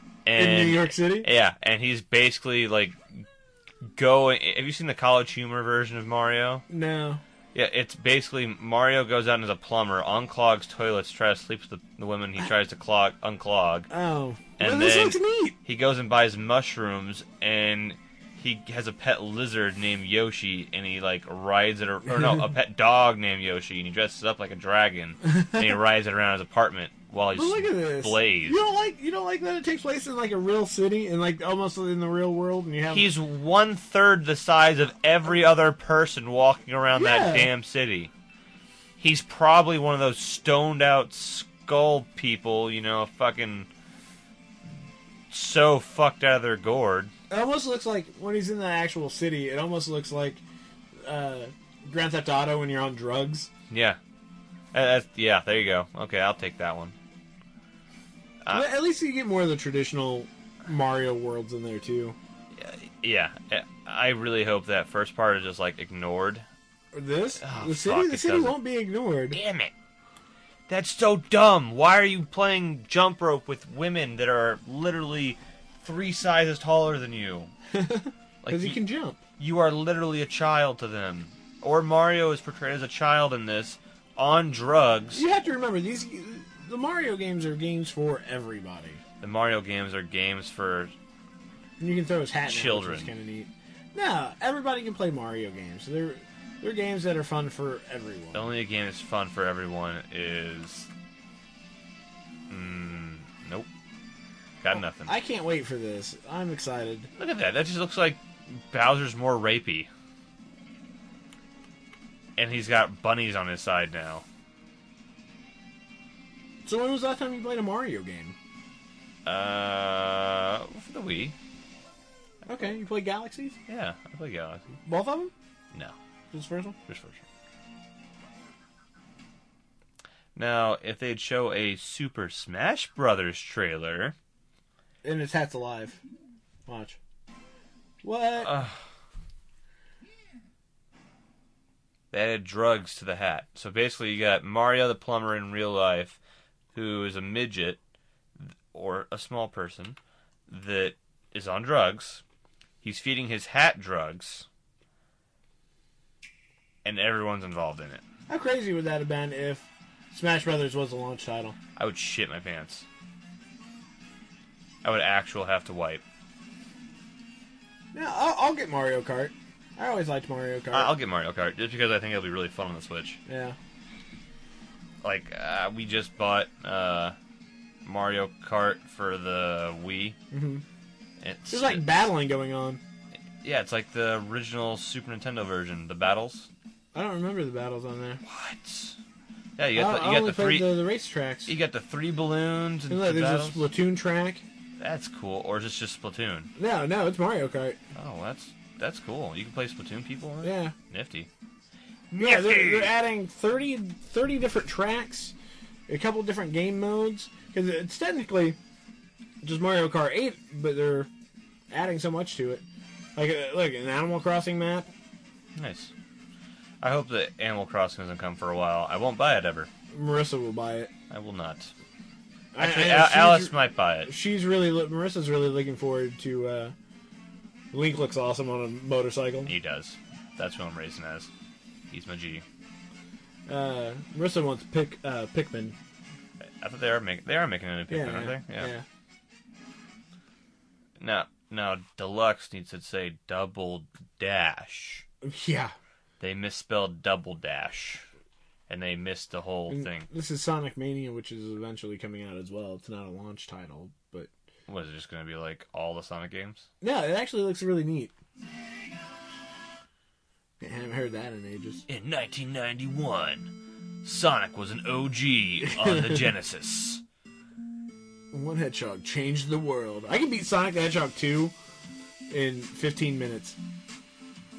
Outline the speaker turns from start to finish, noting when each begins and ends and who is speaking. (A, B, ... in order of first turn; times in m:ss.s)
0:00.2-0:03.2 A
0:00.4-0:01.3 B
0:03.8-0:06.6 A
0:06.7-0:07.2 B
0:07.5-0:13.9 A
0:13.9-0:15.6 B
0:14.6-0:28.6 A
0:27.3-0:33.1 B
0:32.9-0:38.1 A
0:36.9-0:37.5 B
0:39.0-0:43.7 A
0:45.3-0:47.1 A
0:47.3-0:50.4 B
0:51.0-0:53.5 B
0:53.7-0:54.0 A
0:54.7-0:56.9 A
0:58.4-0:58.7 A
0:58.5-1:02.2 B
1:02.5-1:06.5 A
1:06.9-1:09.4 B
1:07.4-1:08.6 A
1:09.3-1:09.7 A
1:10.7-1:17.5 A
1:17.7-1:19.2 B
1:18.4-1:18.8 A
1:19.4-1:25.2 A
1:25.1-1:29.0 B
1:29.2-1:30.9 A
1:31.8-1:38.5 B
1:32.4-1:33.1 A
1:38.3-1:40.9 A
1:42.5-1:43.7 A
1:44.6-1:45.1 A
1:44.9-1:47.1 B
1:47.2-1:49.9 A
1:52.4-1:54.2 A
1:56.6-1:58.4 B
1:59.2-2:01.4 A
2:02.4-2:03.6 B
2:03.7-2:04.8 A
2:04.8-2:05.3 B
2:06.3-2:06.8 B
2:06.9-2:07.2 A
2:10.3-2:14.2 A
2:15.0-2:16.0 B
2:16.7-2:17.0 B
2:18.0-2:18.6 B
2:18.4-2:18.8 A
2:22.1-2:26.2 A
2:26.7-2:27.8 A
2:28.4-2:32.2 A
2:32.8-2:34.5 A
2:36.8-2:38.0 A
2:38.3-2:41.6 B
2:41.8-2:42.8 A
2:44.8-2:46.0 A
2:47.9-2:50.9 B
2:50.7-2:53.2 A
2:53.3-2:53.6 B
2:55.0-2:57.2 A
2:57.8-3:00.2 A
3:00.3-3:00.6 B
3:01.2-3:02.1 A
3:01.5-3:02.8 B
3:03.4-3:06.5 A
3:06.9-3:08.2 B
3:08.2-3:09.0 A
3:09.6-3:10.8 A
3:09.7-3:11.5 B
3:11.5-3:13.6 A
3:12.9-3:14.4 B
3:14.8-3:16.5 A
3:16.6-3:17.8 B
3:17.9-3:21.3 A
3:20.4-3:20.7 B
3:22.1-3:22.9 A
3:22.2-3:25.3 B
3:25.9-3:28.6 B
3:29.4-3:31.1 B
3:31.7-3:32.6 B
3:33.2-3:34.9 B
3:35.5-3:35.9 A
3:36.8-3:39.7 A
3:39.9-3:40.9 B
3:41.1-3:41.7 A
3:42.5-3:46.7 B
3:42.6-3:44.1 A
3:47.7-3:49.5 B
3:49.4-3:51.3 A
3:51.9-3:52.4 A
3:53.5-3:55.8 B
3:56.4-3:58.7 A
3:57.9-3:58.8 B
4:01.0-4:05.0 A
4:05.2-4:05.7 B
4:06.2-4:08.1 A
4:08.7-4:10.1 A
4:09.7-4:14.3 B
4:14.7-4:16.7 A
4:16.8-4:18.1 B
4:20.6-4:21.8 B
4:21.9-4:27.0 A
4:25.6-4:26.2 B
4:28.3-4:31.5 B
4:32.3-4:33.6 B